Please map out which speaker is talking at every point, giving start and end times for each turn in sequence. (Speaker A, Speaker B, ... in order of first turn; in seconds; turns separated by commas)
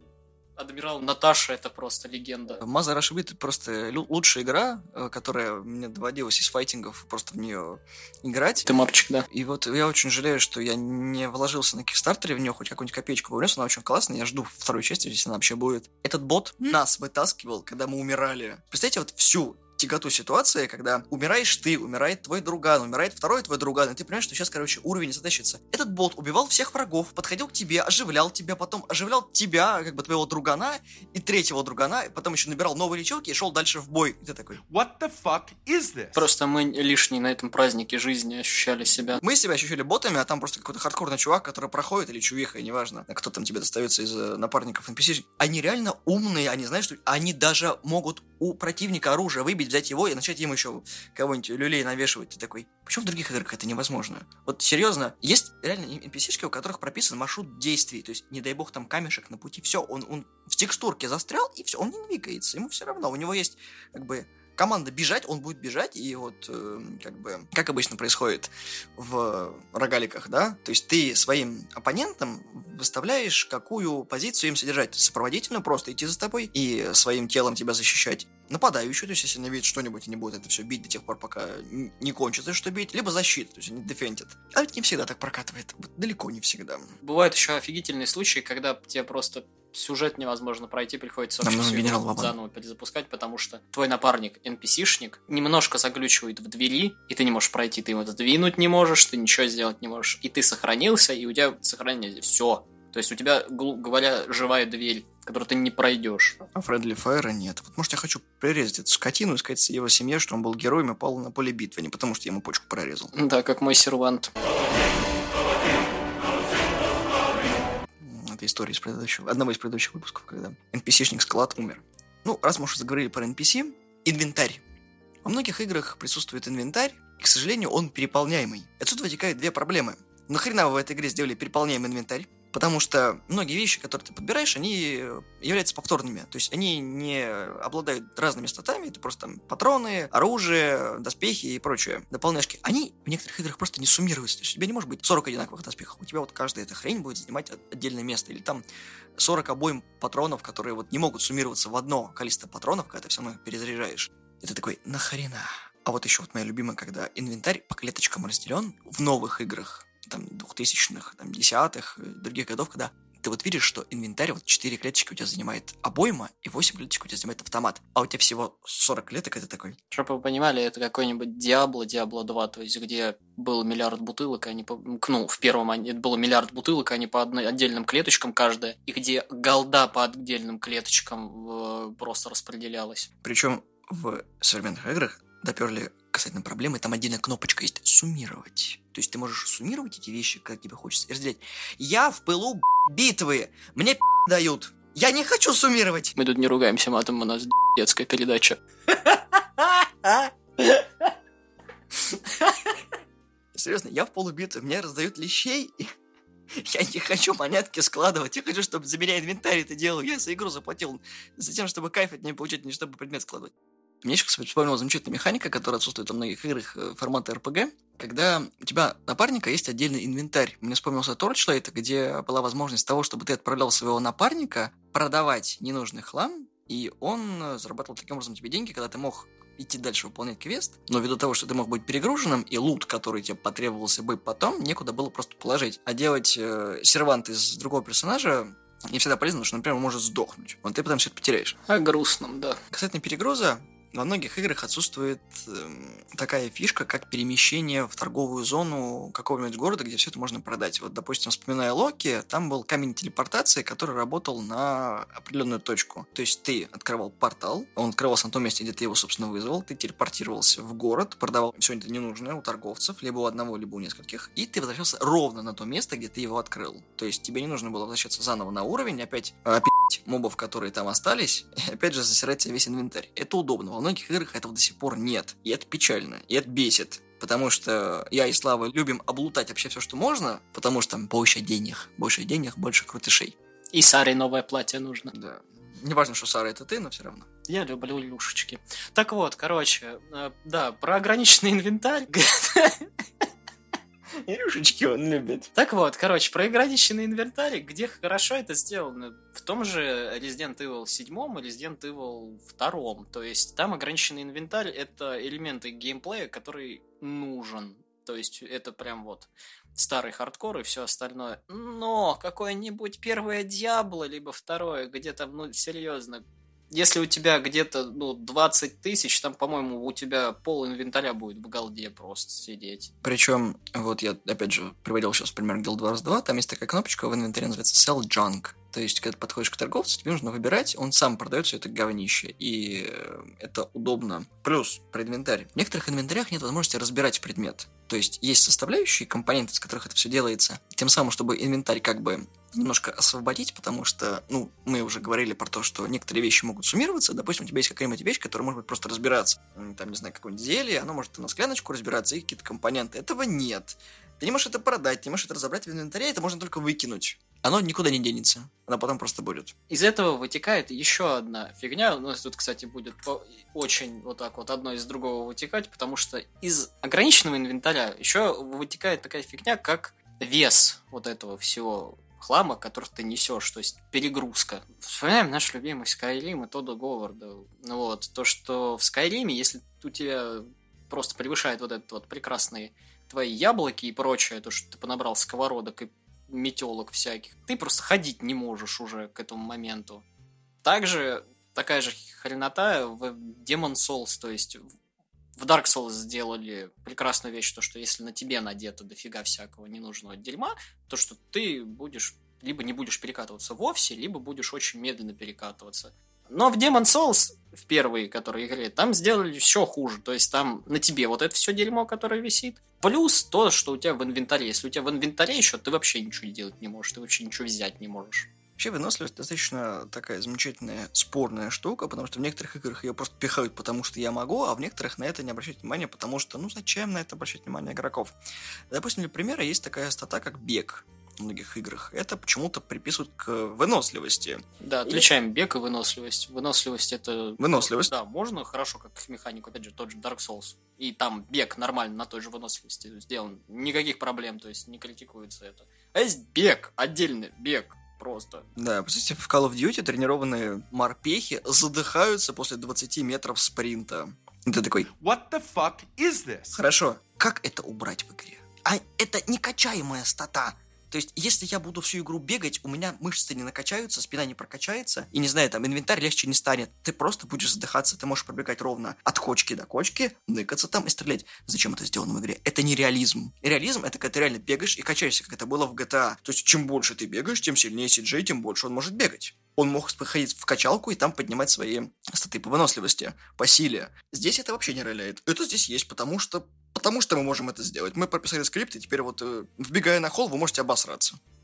Speaker A: 0.6-2.6, Speaker B: 2.6-8.7, Speaker A: 8.7-9.2, Speaker B: 9.3-34.6, Speaker C: 34.7-36.3, Speaker A: 36.1-39.2, Speaker B: 39.2-86.9, Speaker A: 87.0-106.4, Speaker B: 91.4-92.3, Speaker B: 106.5-113.1, Speaker A: 113.1-114.3, Speaker B: 118.0-124.6, Speaker B: 125.2-148.6, Speaker B: 149.2-169.8, Speaker A: 169.9-183.1, Speaker B: 183.2-196.2, Speaker A: 196.2-201.1, Speaker A: 202.1-202.7, Speaker B: 203.5-205.9, Speaker B: 206.6-241.6, Speaker A: 241.7-242.6, Speaker B: 242.7-283.4, Speaker A: 283.7-285.1, Speaker B: 285.1-287.3, Speaker A: 287.5-292.9, Speaker B: 294.1-295.5, Speaker A: 295.6-322.9, Speaker B: 323.0-359.5, Speaker A: 359.7-390.0, Speaker A: 390.6-394.6, Speaker A: 395.4-418.3, Speaker B: 418.6-428.2, Speaker B: 428.7-435.1, Speaker A: 434.6-448.5, Speaker B: 437.4-437.9, Speaker B: 448.6-454.9, Speaker C: 455.0-456.6, Speaker B: 456.5-491.2